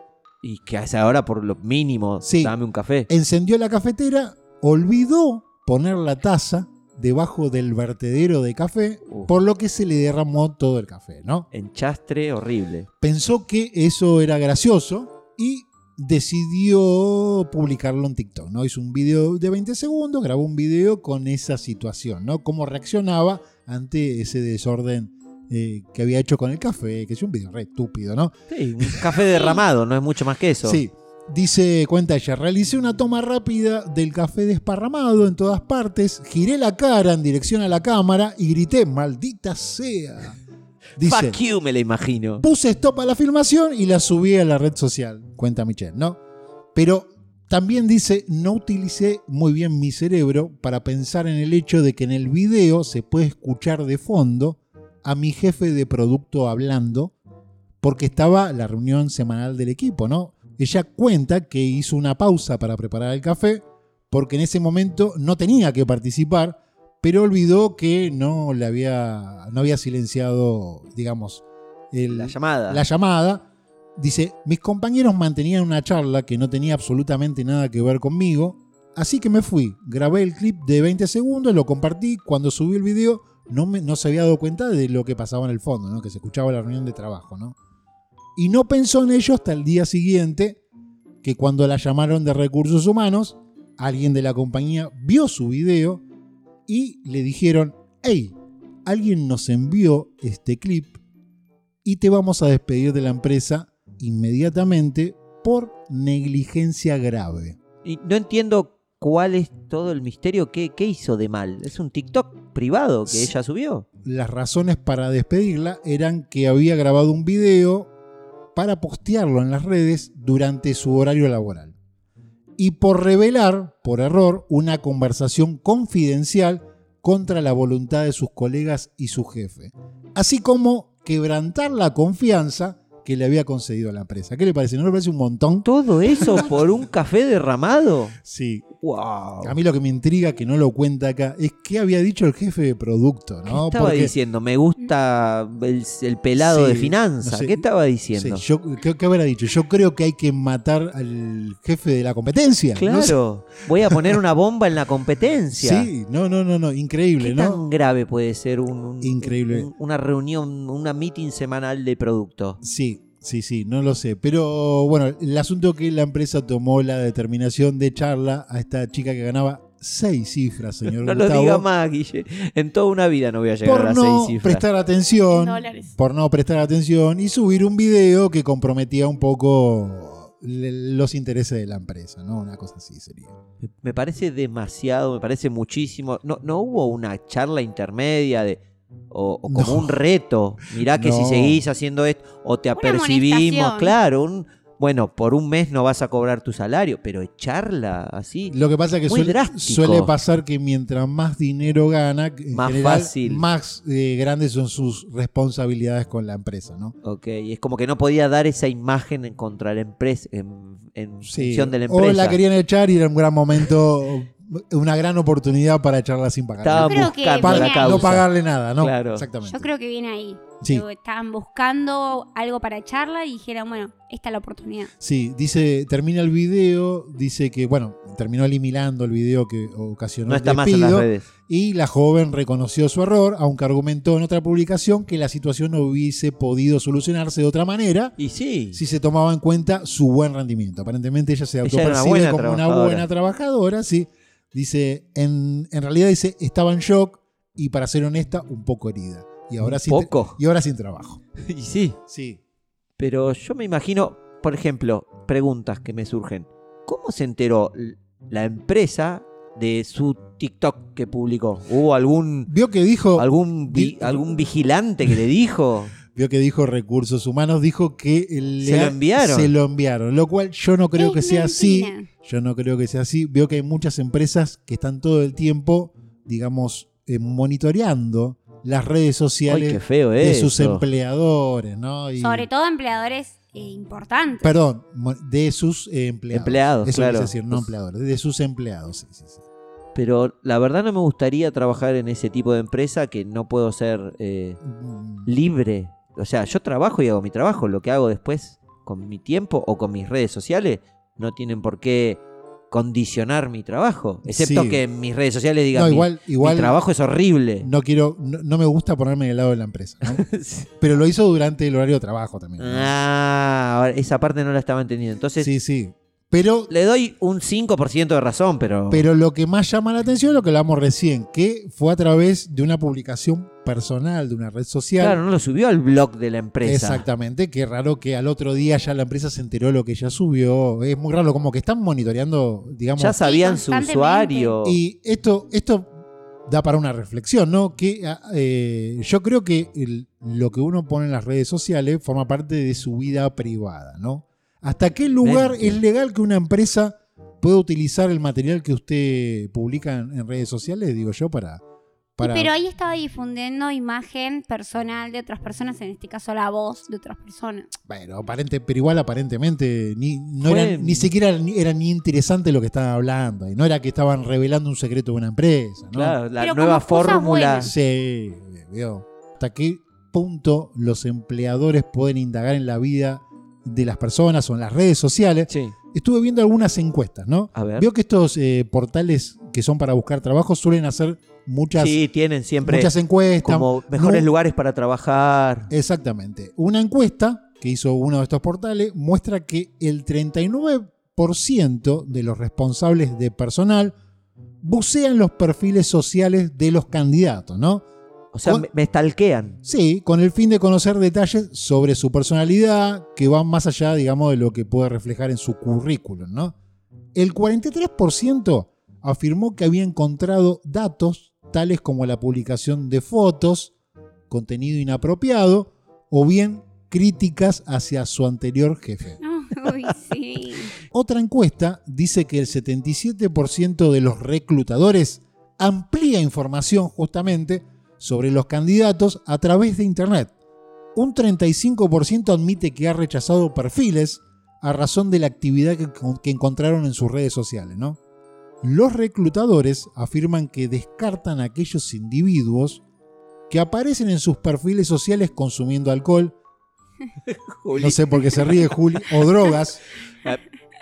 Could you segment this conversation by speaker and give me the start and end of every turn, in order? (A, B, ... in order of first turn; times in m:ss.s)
0:00.4-0:03.1 A
0:02.2-0:02.5 B
0:03.1-0:11.5 B
0:11.5-0:12.9 A
0:13.0-0:29.4 B
0:28.5-0:30.8 A
0:30.6-0:40.4 B
0:41.0-0:41.4 B
0:41.0-0:42.4 A
0:42.4-0:46.2 B
0:46.7-0:57.1 B
0:57.8-1:13.4 B
1:12.1-1:12.8 A
1:14.0-1:27.6 B
1:28.4-1:30.6 B
1:31.2-1:36.0 B
1:36.7-1:41.0 B
1:41.8-1:47.6 B
1:47.8-1:53.9 A
1:53.1-1:53.3 B
1:54.0-1:57.9 B
1:58.5-2:01.8 B
2:02.6-2:16.8 B
2:15.6-2:18.2 A
2:18.2-2:18.6 B
2:18.8-2:19.5 A
2:19.4-2:24.1 B
2:23.5-2:28.4 A
2:26.4-2:27.6 B
2:28.1-2:33.2 B
2:32.7-2:35.9 A
2:33.8-2:34.2 B
2:35.5-2:37.6 B
2:37.2-2:42.6 A
2:39.0-2:39.7 B
2:42.6-2:51.6 B
2:51.0-2:54.6 A
2:53.6-3:03.4 B
2:55.3-2:55.9 C
3:03.6-3:08.6 A
3:09.1-3:20.1 A
3:09.5-3:10.0 B
3:10.8-3:11.6 B
3:12.8-3:13.9 C
3:18.5-3:26.9 B
3:22.5-3:23.4 A
3:27.0-3:32.4 A
3:31.2-3:39.7 B
3:36.6-3:38.3 A
3:36.8-3:38.1 C
3:38.8-3:39.2 A
3:39.4-3:44.9 C
3:45.0-3:58.2 B
3:50.3-3:51.2 A
3:58.2-3:58.8 A
3:58.7-4:11.2 B
4:01.6-4:03.0 A
4:09.6-4:10.4 A
4:11.4-4:12.0 A
4:12.1-4:12.4 B
4:13.0-4:22.5 A
4:22.5-4:24.4 B
4:23.2-4:26.0 A
4:26.1-4:42.5 B
4:28.6-4:29.5 A
4:31.0-4:32.1 C
4:39.5-4:40.8 A
4:42.2-4:44.5 C
4:44.4-4:49.4 B
4:46.3-4:47.7 A
4:49.9-4:54.6 A
4:54.6-4:55.3 B
4:55.2-5:07.7 A
5:04.3-5:04.8 B
5:05.7-5:06.8 B
5:07.6-5:10.2 B
5:10.0-5:10.7 A
5:10.8-5:12.9 B
5:12.6-5:15.5 A
5:15.4-5:16.7 B
5:16.7-5:19.0 A
5:18.9-5:25.2 B
5:25.0-5:27.0 A
5:26.6-5:33.2 B
5:33.0-5:34.8 A
5:33.2-5:34.5 C
5:34.6-5:35.9 B
5:36.5-5:51.6 B
5:45.2-5:45.8 A
5:52.2-5:52.5 B
5:52.2-5:57.7 C
5:57.9-6:06.2 B
6:00.4-6:01.1 A
6:05.9-6:07.7 A
6:06.4-6:07.7 C
6:07.6-6:22.0 B
6:15.5-6:15.7 A
6:17.5-6:17.9 A
6:21.8-6:22.9 A
6:22.6-6:24.3 B
6:23.4-6:25.7 A
6:25.7-6:33.9 B
6:34.6-6:37.8 B
6:38.3-6:39.6 A
6:39.6-6:46.5 B
6:47.1-6:53.7 B
6:54.3-6:59.2 B
6:59.2-7:00.7 C
7:00.9-7:10.3 B
7:10.9-7:18.0 B
7:18.6-7:22.8 B
7:23.5-7:26.3 B
7:27.3-7:28.8 A
7:27.7-7:29.8 B